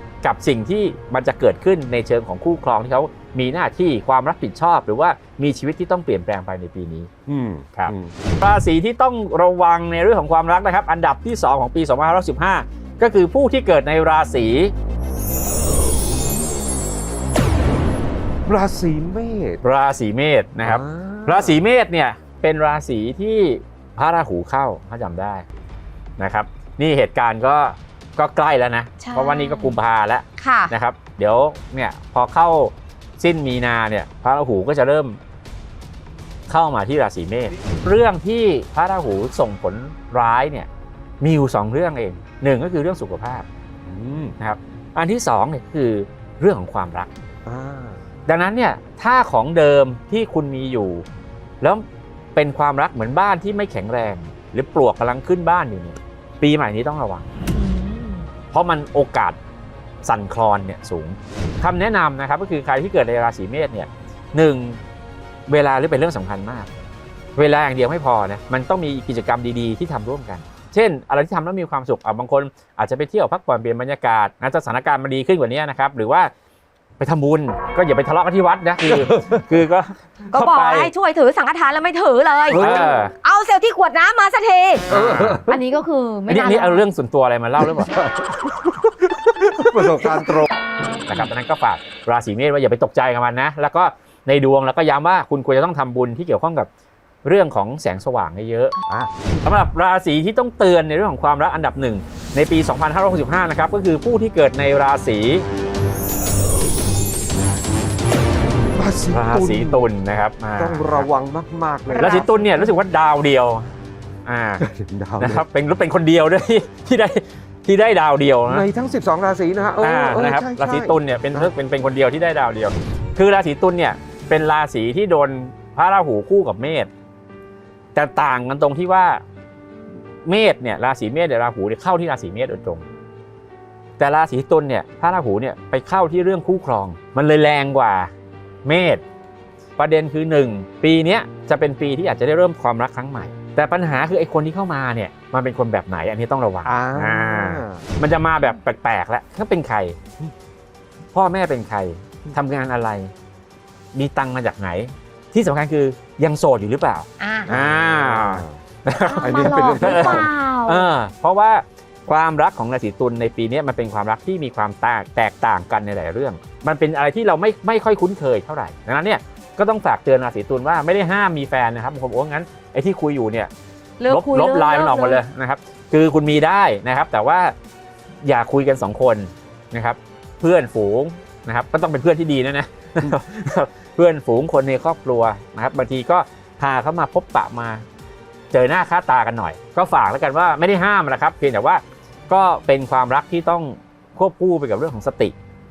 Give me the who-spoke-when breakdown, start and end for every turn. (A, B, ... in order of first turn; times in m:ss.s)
0:00.2-0:07.1 A
0:07.3-0:08.2 B
0:07.8-0:14.7 A
0:18.5-0:19.6 B
0:19.6-0:25.5 A
0:20.6-0:21.6 B
0:26.2-0:35.2 A
0:29.0-0:29.8 C
0:30.4-0:30.7 C
0:36.5-0:40.7 A
0:41.2-0:43.5 A
0:43.9-0:44.4 B
0:44.4-0:47.1 A
0:47.5-0:48.0 B
0:48.3-0:51.0 A
0:52.4-0:57.3 A
0:57.5-0:58.3 C
0:58.5-0:59.4 A
1:00.0-1:04.8 A
1:05.5-1:06.7 A
1:07.4-1:16.3 A
1:17.0-1:20.9 A
1:18.9-1:19.4 B
1:20.3-1:24.9 C
1:22.5-1:23.0 B
1:22.5-1:23.1 A
1:24.9-1:25.4 A
1:24.9-1:25.6 B
1:25.5-1:26.8 C
1:26.3-1:28.0 A
1:27.8-1:28.6 B
1:29.2-1:30.2 A
1:29.5-1:30.5 B
1:31.1-1:36.7 A
1:37.2-1:38.8 A
1:38.9-1:39.2 B
1:39.4-1:45.4 A
1:48.7-1:49.9 B
1:49.1-1:51.1 A
1:50.6-1:52.6 B
1:51.9-1:52.4 C
1:52.0-1:53.7 A
1:54.3-1:54.6 A
1:54.6-1:55.5 B
1:55.2-1:58.7 A
1:58.5-2:01.5 B
1:59.8-2:06.9 A
2:07.9-2:09.2 A
2:10.2-2:12.9 A
2:14.0-2:18.1 A
2:18.6-2:19.0 A
2:19.8-2:30.0 A
2:26.6-2:27.9 B
2:31.1-2:33.1 A
2:33.9-2:53.5 A
2:37.2-2:37.5 C
2:37.5-2:38.6 B
2:39.0-2:40.9 C
2:39.2-2:40.3 B
2:54.0-2:55.2 C
2:54.1-2:57.5 A
2:58.2-3:07.9 A
3:08.5-3:15.4 A